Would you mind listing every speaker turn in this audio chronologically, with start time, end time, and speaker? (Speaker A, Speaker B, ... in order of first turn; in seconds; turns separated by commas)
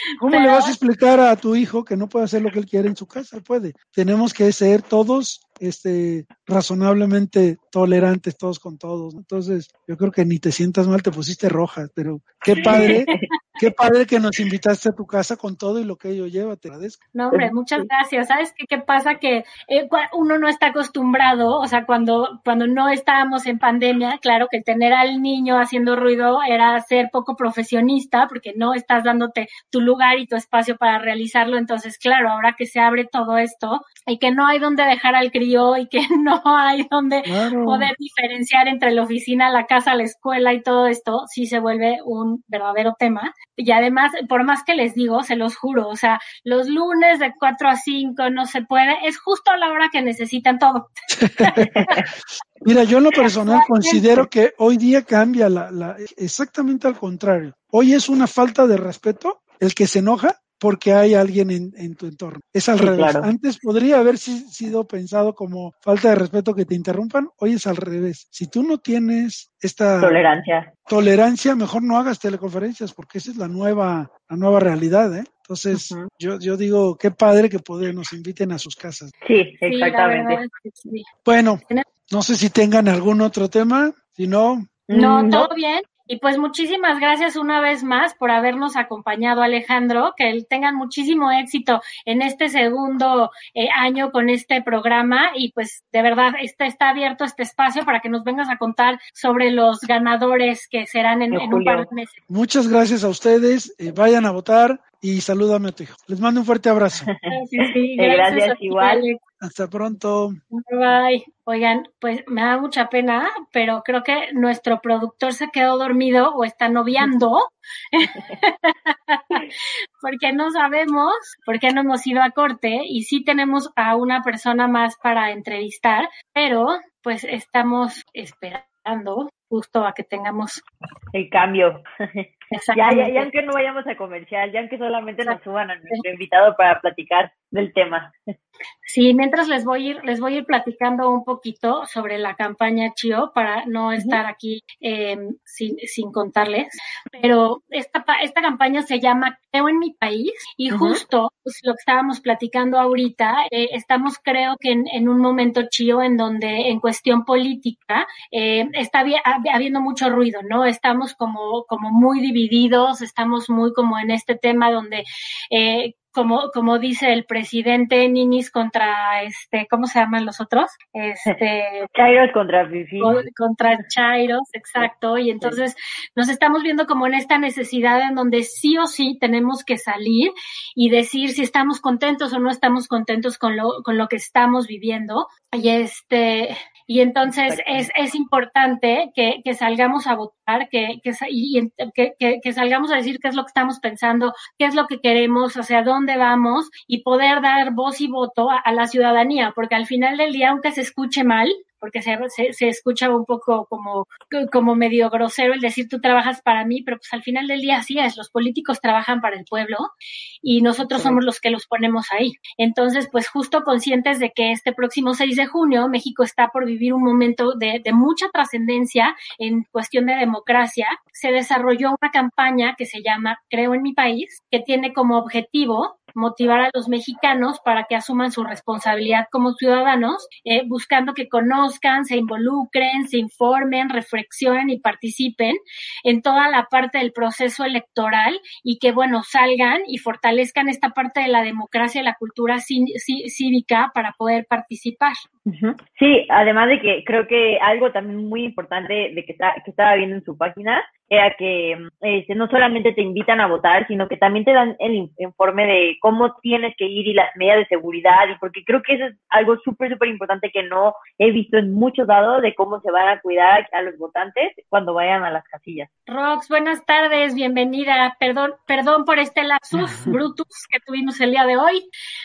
Speaker A: 0.2-17.0, Speaker B: 0.3-0.7, Speaker C: 12.7-13.2, Speaker B: 12.7-13.1, Speaker B: 17.1-50.9, Speaker C: 17.3-17.9, Speaker A: 37.2-37.9, Speaker A: 51.1-51.7, Speaker B: 51.4-52.0, Speaker A: 52.6-70.2, Speaker B: 53.5-54.0, Speaker C: 62.8-63.3, Speaker C: 70.0-70.7, Speaker A: 70.9-79.1, Speaker C: 75.7-76.1, Speaker C: 79.2-80.4, Speaker B: 79.6-81.0, Speaker A: 81.2-84.8, Speaker C: 84.9-85.5, Speaker B: 84.9-102.2, Speaker C: 101.3-101.8, Speaker A: 102.3-107.1, Speaker C: 107.0-109.0, Speaker B: 107.3-109.2, Speaker A: 109.4-110.4, Speaker B: 110.5-119.4, Speaker C: 118.1-118.3, Speaker B: 120.0-130.6, Speaker C: 131.1-138.1, Speaker B: 132.5-133.3, Speaker B: 138.9-171.9, Speaker C: 150.7-151.0, Speaker C: 171.9-173.2, Speaker B: 173.0-209.9, Speaker C: 187.3-187.9, Speaker B: 210.4-245.2, Speaker C: 210.9-211.2, Speaker C: 245.5-265.9, Speaker B: 266.1-271.9